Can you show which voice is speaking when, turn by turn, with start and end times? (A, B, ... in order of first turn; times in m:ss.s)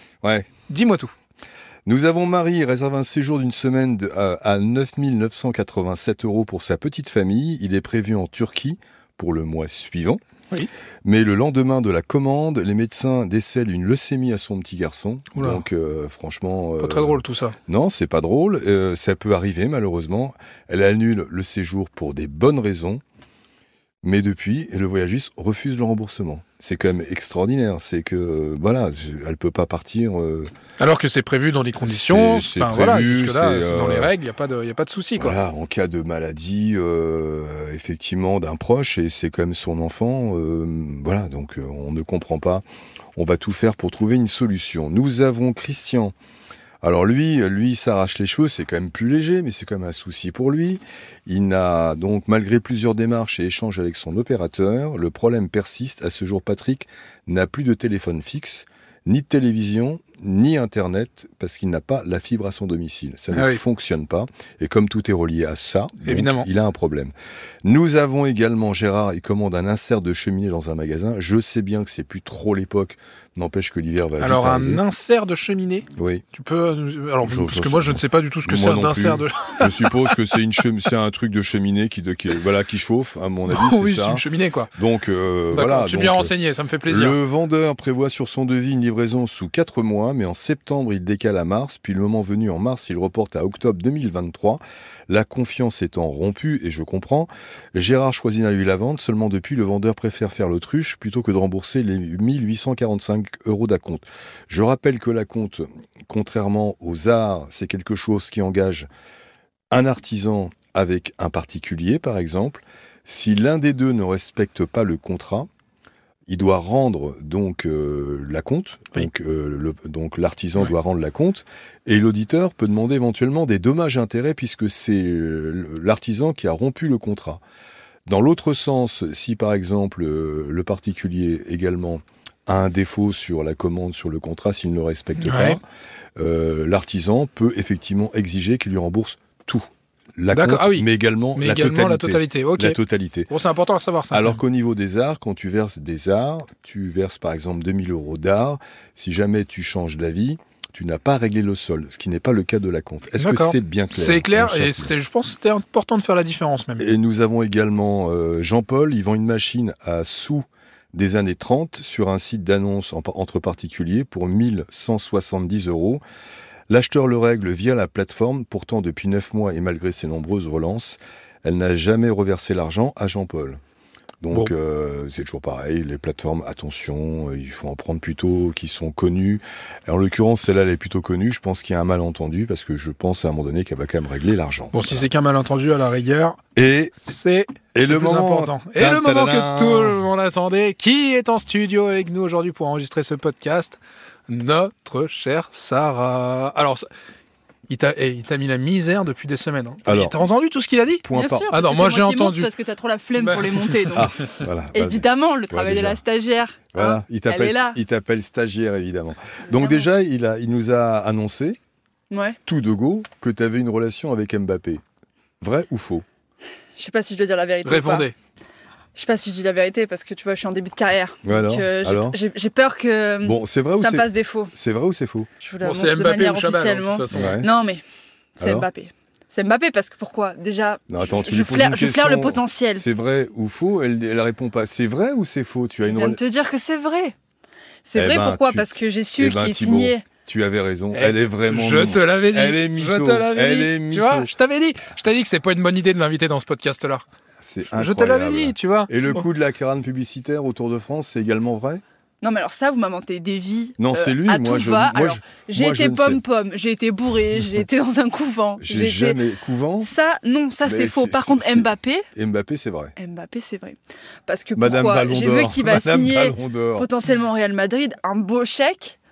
0:00.2-0:00.5 A
0:00.7-0:01.1 B
0:01.8-0:10.2 A
0:11.0-0:23.0 A
0:15.3-0:15.6 B
0:16.8-0:17.6 B
0:24.0-0:30.5 A
0:30.8-0:35.4 B
0:31.8-0:34.1 A
0:35.2-0:42.6 A
0:43.1-0:46.1 A
0:46.8-1:07.1 A
1:03.3-1:03.6 B
1:06.0-1:06.5 B
1:07.6-1:14.8 A
1:14.2-1:20.2 B
1:16.0-1:16.2 A
1:17.2-1:26.3 A
1:23.5-1:24.7 B
1:25.5-1:27.2 B
1:26.8-1:48.9 A
1:49.7-1:55.5 A
1:56.3-2:07.4 A
2:08.0-2:15.6 A
2:15.2-2:15.6 B
2:16.2-2:23.3 A
2:20.3-2:22.8 B
2:23.3-2:24.4 B
2:24.1-2:34.9 A
2:33.2-2:36.9 B
2:36.8-2:46.0 A
2:46.7-2:53.6 A
2:54.2-3:05.0 A
3:04.7-3:06.4 B
3:06.5-3:07.0 A
3:07.0-3:16.8 B
3:07.7-3:10.0 A
3:17.7-3:22.5 B
3:19.8-3:20.2 A
3:21.0-3:21.5 A
3:21.1-3:24.1 C
3:23.2-3:24.0 B
3:23.9-3:26.0 A
3:24.7-3:27.8 C
3:26.7-3:31.6 A
3:29.4-3:29.9 C
3:32.1-3:32.4 C
3:32.4-3:34.8 A
3:35.4-3:36.0 A
3:36.8-3:38.1 C
3:37.6-3:38.1 B
3:39.0-3:44.5 C
3:41.2-3:42.2 A
3:43.2-3:45.3 A
3:45.4-3:47.8 C
3:45.6-3:47.4 B
3:47.1-3:47.5 A
3:48.4-3:48.7 A
3:48.4-3:52.8 C
3:50.9-3:56.2 A
3:55.8-3:57.1 C
3:57.8-4:00.0 C
3:57.9-4:04.3 A
4:00.9-4:07.0 B
4:07.4-4:11.8 A
4:07.8-4:09.2 B
4:12.2-4:19.2 C
4:13.8-4:16.2 A
4:18.6-4:19.9 A
4:19.8-4:22.1 C
4:20.6-4:22.9 A
4:23.0-4:29.0 C
4:24.6-4:26.9 A